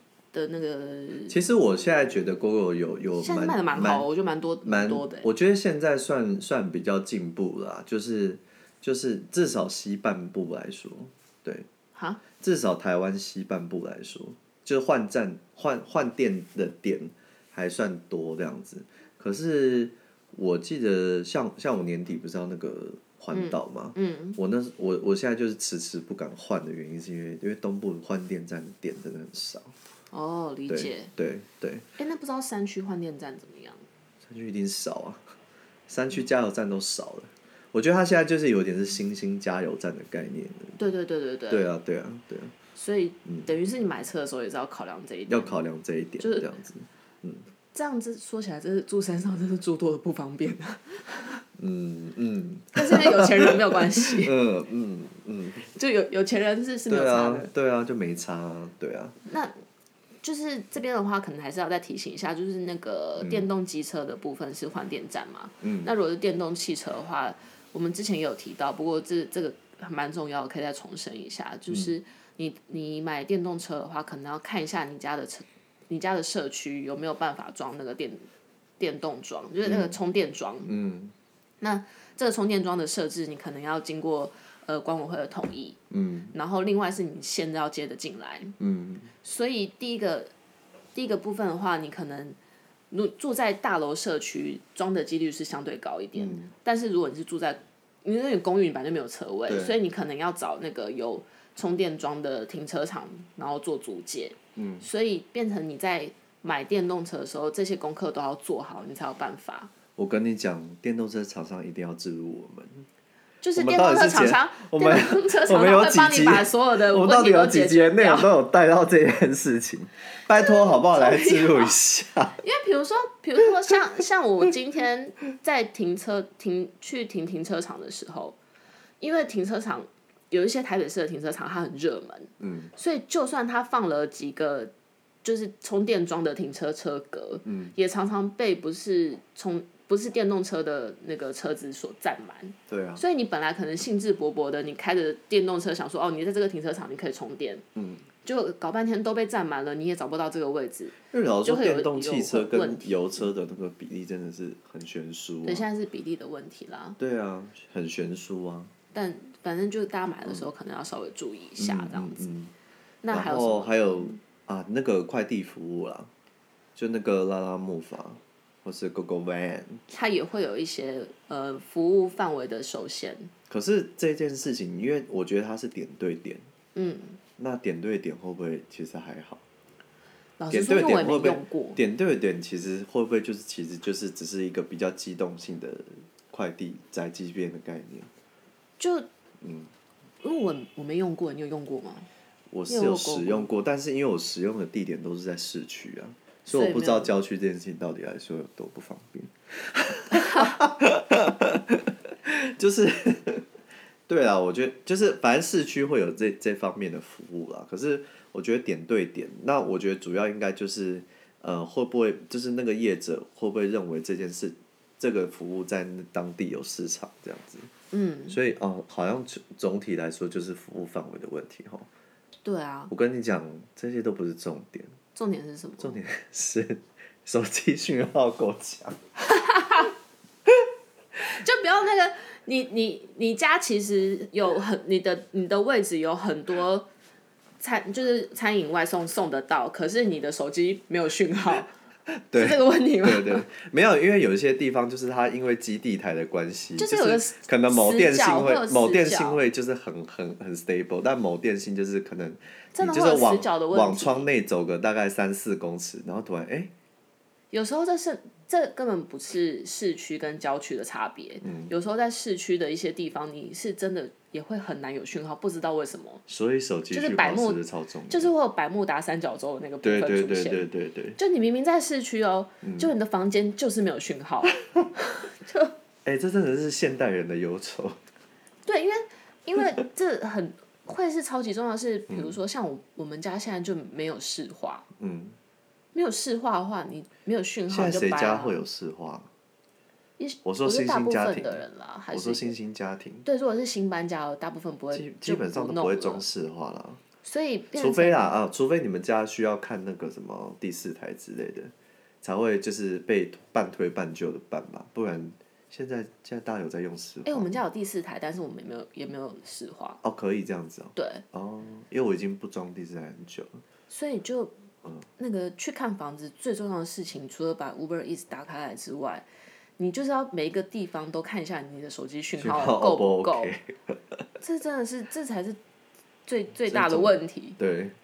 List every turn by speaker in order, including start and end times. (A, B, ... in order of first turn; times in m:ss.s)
0:00.3-0:01.4 A
0:01.3-0:04.1 B
0:03.2-0:05.3 A
0:04.6-0:11.7 B
0:12.0-0:12.2 A
0:12.4-0:29.7 B
0:23.3-0:24.4 A
0:30.1-0:31.1 A
0:30.7-0:31.9 B
0:32.0-0:33.8 A
0:34.2-0:35.2 B
0:35.9-0:40.8 B
0:40.8-0:41.7 A
0:41.5-0:42.5 B
0:42.8-0:45.6 A
0:45.3-0:47.4 B
0:46.2-0:46.5 A
0:47.7-0:51.4 A
0:51.6-0:55.7 B
0:52.8-0:54.4 A
0:55.7-0:57.5 A
0:56.9-0:59.2 B
0:59.2-0:59.6 A
1:00.2-1:18.2 A
1:03.2-1:03.5 B
1:05.6-1:05.9 B
1:11.7-1:11.9 B
1:18.8-1:20.7 A
1:19.6-1:20.0 B
1:20.7-1:21.1 B
1:21.6-1:25.8 A
1:25.9-1:26.3 B
1:26.3-1:28.6 A
1:28.6-1:29.1 B
1:29.2-1:30.3 A
1:31.0-1:32.4 A
1:32.9-1:49.7 A
1:36.2-1:36.5 B
1:39.5-1:39.8 B
1:44.6-1:44.9 B
1:50.0-1:52.9 B
1:53.4-1:58.3 A
1:53.6-2:02.4 B
2:00.3-2:01.8 A
2:02.4-2:08.4 A
2:09.0-2:14.7 A
2:12.4-2:12.7 B
2:15.2-2:27.6 A
2:17.4-2:17.8 B
2:22.7-2:23.0 B
2:27.8-2:28.1 B
2:28.2-2:33.3 A
2:31.1-2:35.7 B
2:35.4-2:37.0 A
2:37.0-2:38.7 B
2:38.9-2:42.3 A
2:41.6-2:42.5 B
2:43.0-2:44.2 A
2:43.1-2:46.1 B
2:46.8-2:49.8 B
2:49.9-2:53.3 A
2:53.5-2:56.4 B
2:56.8-2:57.2 A
2:57.4-2:59.4 B
3:00.4-3:01.8 A
3:00.5-3:08.1 B
3:08.8-3:09.1 A
3:09.4-3:09.7 B
3:10.2-3:12.1 A
3:12.5-3:23.4 B
3:12.7-3:13.5 A
3:16.5-3:17.2 A
3:20.2-3:20.5 A
3:24.1-3:37.7 B
3:37.9-3:38.4 A
3:38.3-3:41.9 B
3:42.4-3:42.9 A
3:42.9-3:44.9 B
3:45.2-3:46.0 A
3:45.8-3:49.0 B
3:49.3-3:49.9 A
3:51.2-3:56.9 A
3:57.6-4:01.7 A
4:02.3-4:16.7 B
4:02.3-4:03.4 A
4:06.8-4:09.4 A
4:12.8-4:14.3 A
4:17.5-4:26.2 A
4:21.4-4:21.7 B
4:26.3-4:28.3 B
4:26.9-4:34.6 A
4:29.8-4:31.2 B
4:32.6-4:32.9 B
4:35.3-4:35.7 A
4:36.0-4:38.0 B
4:38.7-4:44.9 A
4:42.1-4:42.4 B
4:45.0-4:45.4 B
4:45.9-4:48.6 A
4:47.7-4:49.3 B
4:50.2-4:52.6 A
4:50.4-4:53.3 B
4:53.2-4:56.3 A
4:54.9-4:57.0 B
4:57.2-4:58.3 A
4:57.8-5:07.6 B
5:07.2-5:10.0 A
5:10.0-5:13.6 B
5:11.0-5:11.2 A
5:13.9-5:14.6 A
5:15.2-5:19.3 A
5:19.8-5:23.5 A
5:22.4-5:24.0 B
5:24.4-5:25.6 A
5:26.3-5:27.6 A
5:26.7-5:28.0 B